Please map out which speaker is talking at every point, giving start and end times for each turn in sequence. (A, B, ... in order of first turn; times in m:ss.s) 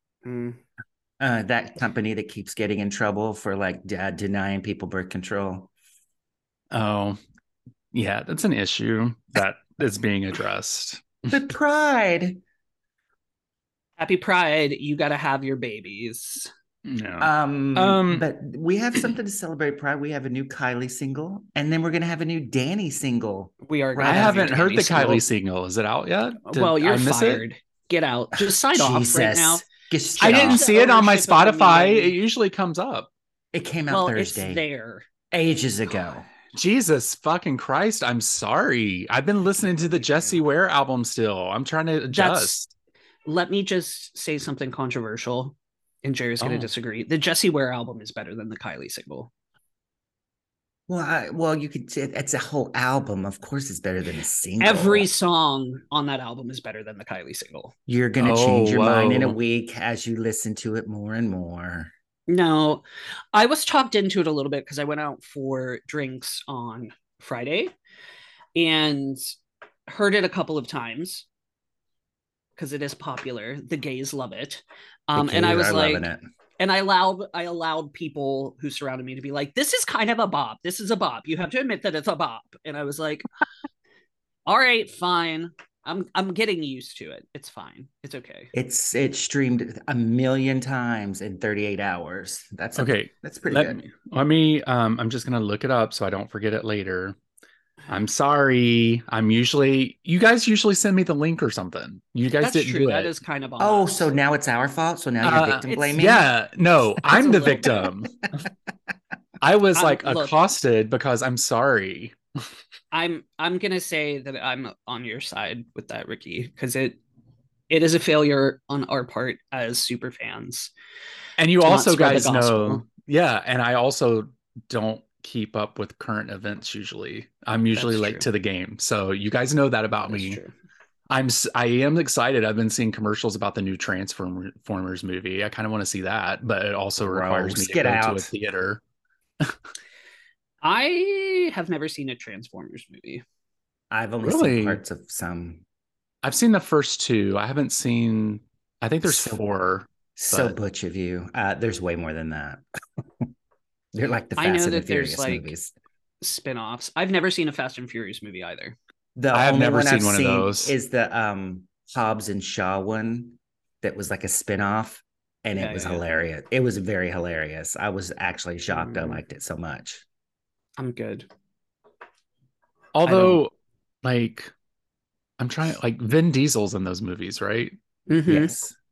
0:00.2-0:00.6 A
0:01.2-0:05.7 B
0:06.7-0:07.2 C
0:07.9-0:11.2 C
0:11.3-0:12.4 B
0:14.0-0:16.5 A
0:16.8-0:18.2 C
0:17.2-0:24.7 B
0:23.6-0:25.2 A
0:24.0-0:27.4 C
0:26.4-0:29.6 A
0:28.4-0:30.6 B
0:30.2-0:32.2 A
0:30.2-0:33.1 C
0:33.5-0:34.6 B
0:33.9-0:35.1 A
0:35.3-0:36.3 B
0:36.5-0:42.7 C
0:39.6-0:40.4 A
0:42.1-0:42.6 A
0:43.2-0:49.3 A
0:46.4-0:46.7 C
0:50.9-0:55.1 B
0:54.6-0:57.7 A
0:57.9-1:01.9 B
0:58.2-0:59.4 C
1:02.3-1:07.7 A
1:08.5-1:09.2 A
1:09.9-1:11.2 A
1:12.6-1:16.1 A
1:15.1-1:16.2 B
1:16.6-1:23.3 A
1:24.5-1:28.5 A
1:28.5-1:33.8 B
1:32.8-1:37.2 C
1:37.9-1:43.1 C
1:42.4-1:44.1 A
1:43.6-1:46.2 B
1:45.2-1:48.3 C
1:45.7-1:45.9 A
1:47.0-1:47.9 A
1:49.4-1:52.2 C
1:49.7-1:50.4 A
1:52.9-1:57.0 A
1:57.7-2:00.7 A
2:01.4-2:10.4 C
2:01.6-2:02.8 A
2:07.7-2:08.3 A
2:10.0-2:10.5 A
2:11.1-2:18.8 C
2:17.0-2:18.3 B
2:20.6-2:23.2 A
2:23.9-2:25.6 B
2:24.2-2:24.8 C
2:26.2-2:30.6 C
2:29.0-2:29.4 B
2:30.2-2:32.6 B
2:33.9-2:35.7 B
2:34.4-2:35.5 A
2:36.2-2:38.8 A
2:39.2-2:50.0 B
2:39.3-2:40.7 C
2:45.5-2:46.0 A
2:48.7-2:49.2 A
2:50.8-2:51.3 A
2:52.9-2:53.5 C
2:53.0-2:53.4 A
2:54.0-2:54.5 C
2:55.4-2:57.8 C
2:58.1-2:58.5 A
2:58.2-2:58.8 B